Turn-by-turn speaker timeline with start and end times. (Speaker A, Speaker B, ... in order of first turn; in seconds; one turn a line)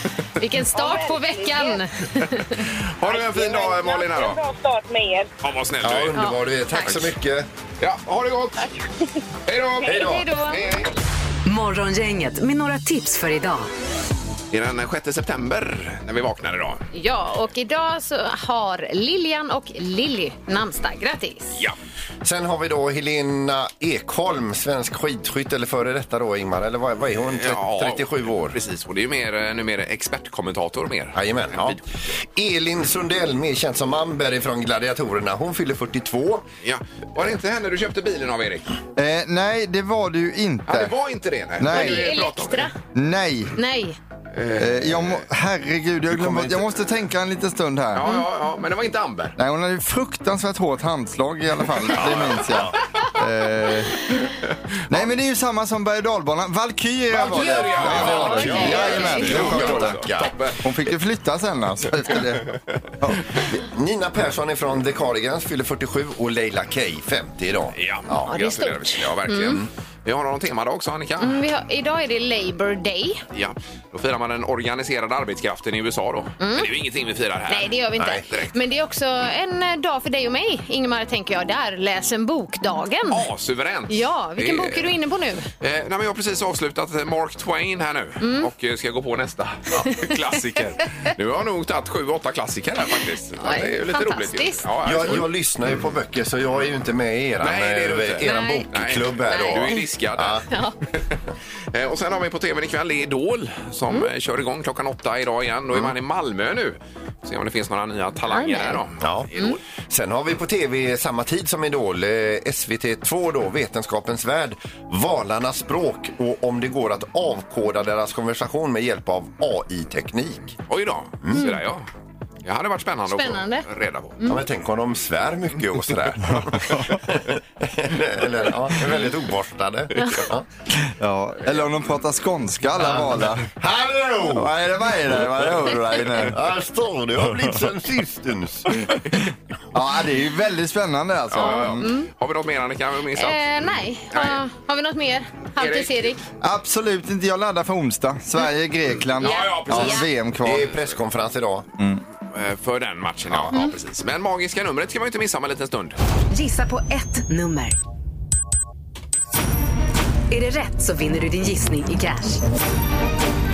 Speaker A: 0.4-2.6
Speaker B: 0.7-1.8
Speaker C: 2.6-4.4
Speaker B: 3.0-5.3
Speaker C: 5.4-6.2
Speaker D: 5.8-7.5
Speaker A: 6.1-7.0
Speaker C: 7.8-8.7
Speaker B: 8.6-9.0
Speaker C: 9.4-10.9
Speaker A: 9.8-10.6
Speaker D: 9.9-10.3
Speaker E: 11.4-13.7
Speaker C: 14.5-16.8
Speaker A: 16.9-21.6
Speaker D: 22.2-28.6
Speaker C: 27.3-31.8
Speaker D: 31.1-36.4
Speaker C: 36.6-38.8
Speaker F: 39.0-40.9
Speaker C: 40.7-42.7
Speaker F: 41.6-42.1
Speaker A: 41.7-42.7
Speaker F: 42.9-43.5
Speaker A: 43.5-44.0
Speaker C: 44.3-45.2
Speaker F: 44.5-48.1
Speaker D: 46.1-46.7
Speaker C: 47.9-49.4
Speaker F: 49.4-54.1
Speaker D: 51.9-52.8
Speaker F: 54.9-60.0
Speaker C: 57.1-60.6
Speaker D: 57.3-60.3
Speaker A: 58.0-59.4
Speaker F: 60.6-63.2
Speaker D: 63.5-68.3
Speaker C: 67.7-71.4
Speaker A: 68.2-69.6
Speaker A: 71.2-73.2
Speaker C: 73.3-78.5
Speaker A: 76.4-76.7
Speaker A: 77.5-83.2
Speaker D: 78.0-78.2
Speaker C: 83.1-84.9
Speaker A: 83.9-85.5
Speaker C: 85.6-95.3
Speaker A: 88.2-88.5
Speaker A: 93.4-95.2
Speaker D: 94.8-100.5
Speaker C: 97.4-100.4
Speaker A: 98.2-98.6
Speaker A: 99.3-99.9
Speaker A: 100.5-100.7
Speaker C: 101.7-109.6
Speaker A: 108.3-108.8
Speaker D: 109.0-109.3
Speaker D: 109.8-120.5
Speaker C: 120.7-121.8
Speaker D: 121.2-121.5
Speaker C: 122.4-124.2
Speaker A: 123.1-123.7
Speaker D: 124.2-130.4
Speaker F: 130.7-133.5
Speaker D: 132.8-134.5
Speaker F: 134.3-136.4
Speaker D: 136.3-138.9
Speaker F: 139.7-141.8
Speaker C: 141.3-143.4
Speaker A: 141.3-142.1
Speaker A: 143.2-146.2
Speaker C: 144.1-144.4
Speaker C: 145.6-146.1
Speaker F: 146.4-150.7
Speaker C: 149.2-150.1
Speaker A: 149.2-150.1
Speaker D: 150.4-151.7
Speaker C: 152.3-155.9
Speaker D: 153.3-153.7
Speaker E: 156.3-157.8
Speaker E: 160.3-162.4